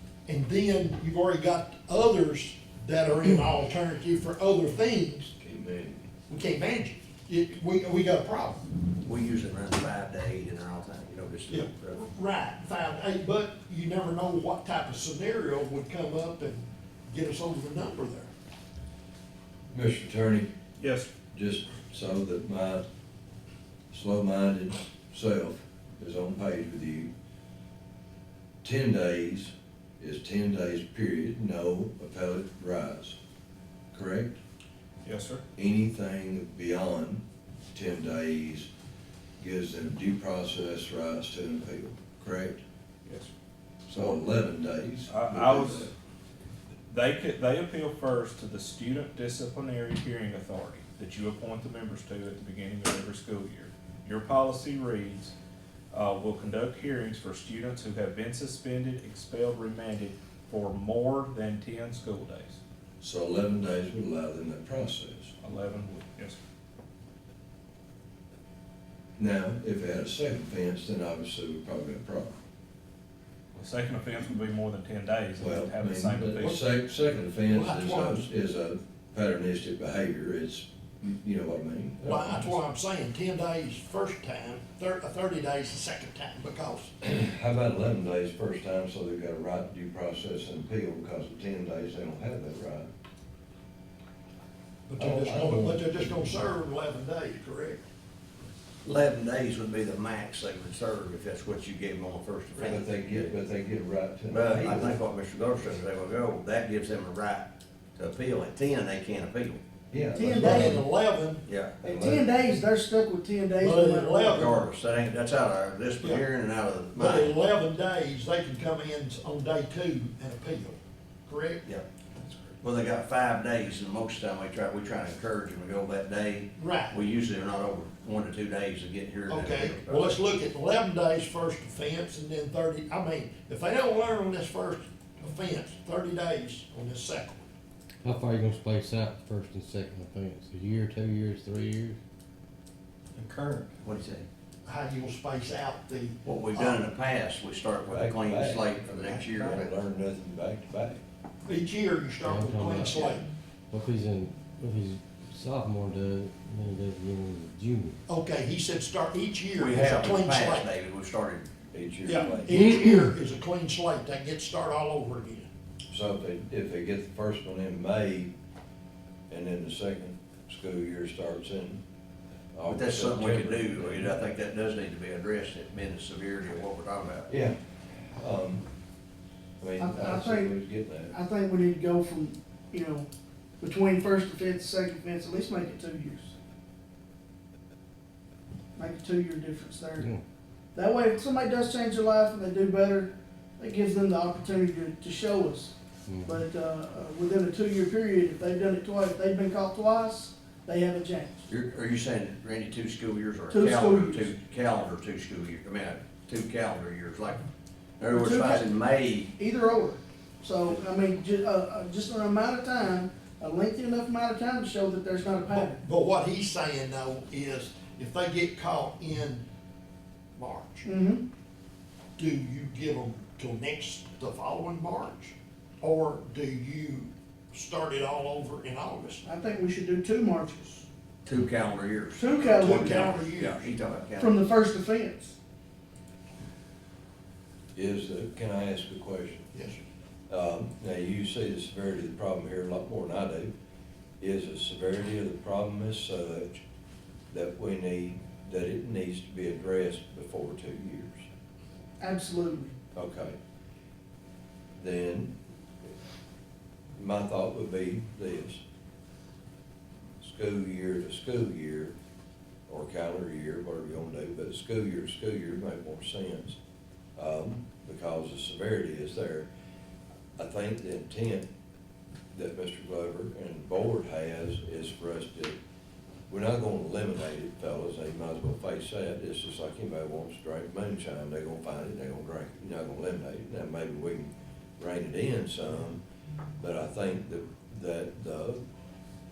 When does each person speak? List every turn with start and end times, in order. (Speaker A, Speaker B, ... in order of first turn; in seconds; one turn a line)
Speaker A: 0.3-5.3
Speaker B: 5.4-6.0
Speaker A: 6.3-8.7
Speaker C: 9.0-12.0
Speaker A: 11.5-18.3
Speaker B: 19.7-20.5
Speaker D: 20.8-21.1
Speaker B: 21.3-22.9
Speaker B: 23.9-27.1
Speaker B: 28.6-33.2
Speaker B: 33.9-34.4
Speaker D: 35.0-35.4
Speaker B: 35.5-38.7
Speaker B: 39.4-42.6
Speaker B: 43.9-45.9
Speaker D: 43.9-44.2
Speaker D: 45.1-45.9
Speaker D: 46.9-55.3
Speaker D: 55.9-62.6
Speaker B: 63.0-65.3
Speaker D: 65.4-66.4
Speaker B: 69.2-72.3
Speaker D: 73.5-76.6
Speaker B: 75.4-82.5
Speaker A: 77.5-78.3
Speaker A: 82.0-86.9
Speaker B: 87.0-92.9
Speaker A: 94.9-97.8
Speaker B: 95.0-96.2
Speaker C: 98.8-102.9
Speaker B: 102.6-105.0
Speaker C: 104.3-109.6
Speaker B: 109.9-110.8
Speaker E: 110.1-110.8
Speaker A: 110.4-111.4
Speaker C: 111.5-111.8
Speaker B: 111.8-112.3
Speaker E: 111.8-114.5
Speaker A: 113.6-114.6
Speaker C: 114.4-117.3
Speaker A: 116.0-116.3
Speaker A: 116.9-121.6
Speaker C: 122.6-130.2
Speaker A: 126.6-127.0
Speaker A: 129.3-137.5
Speaker F: 138.1-142.0
Speaker C: 143.2-144.2
Speaker A: 144.7-146.8
Speaker C: 146.2-149.7
Speaker B: 147.9-151.0
Speaker A: 151.4-153.3
Speaker F: 152.3-152.8
Speaker F: 153.7-158.0
Speaker A: 158.1-160.7
Speaker C: 159.6-161.5
Speaker B: 161.7-162.6
Speaker A: 162.1-165.5
Speaker B: 165.9-168.3
Speaker B: 169.3-171.8
Speaker B: 172.5-174.1
Speaker C: 172.7-177.3
Speaker B: 177.3-178.7
Speaker B: 179.6-181.2
Speaker E: 179.8-180.5
Speaker E: 181.1-183.1
Speaker E: 183.6-186.3
Speaker E: 188.8-190.1
Speaker E: 190.8-201.5
Speaker C: 201.5-207.5
Speaker E: 203.5-204.3
Speaker C: 208.0-209.3
Speaker E: 208.1-208.8
Speaker E: 209.4-215.8
Speaker A: 215.5-219.4
Speaker A: 220.3-220.9
Speaker E: 220.8-221.2
Speaker A: 222.2-229.2
Speaker E: 229.2-230.9
Speaker C: 231.2-234.4
Speaker E: 232.2-233.2
Speaker A: 232.5-233.7
Speaker E: 234.2-235.4
Speaker B: 237.8-239.5
Speaker A: 239.5-239.8
Speaker B: 240.3-243.5
Speaker B: 244.2-246.6
Speaker B: 247.3-251.3
Speaker E: 252.0-252.8
Speaker B: 252.9-253.4
Speaker B: 254.8-255.4
Speaker B: 256.9-258.6
Speaker B: 260.2-261.9
Speaker B: 262.7-266.6
Speaker B: 267.2-269.5
Speaker B: 270.4-271.5
Speaker B: 272.3-275.6
Speaker B: 276.3-286.0
Speaker B: 286.6-288.6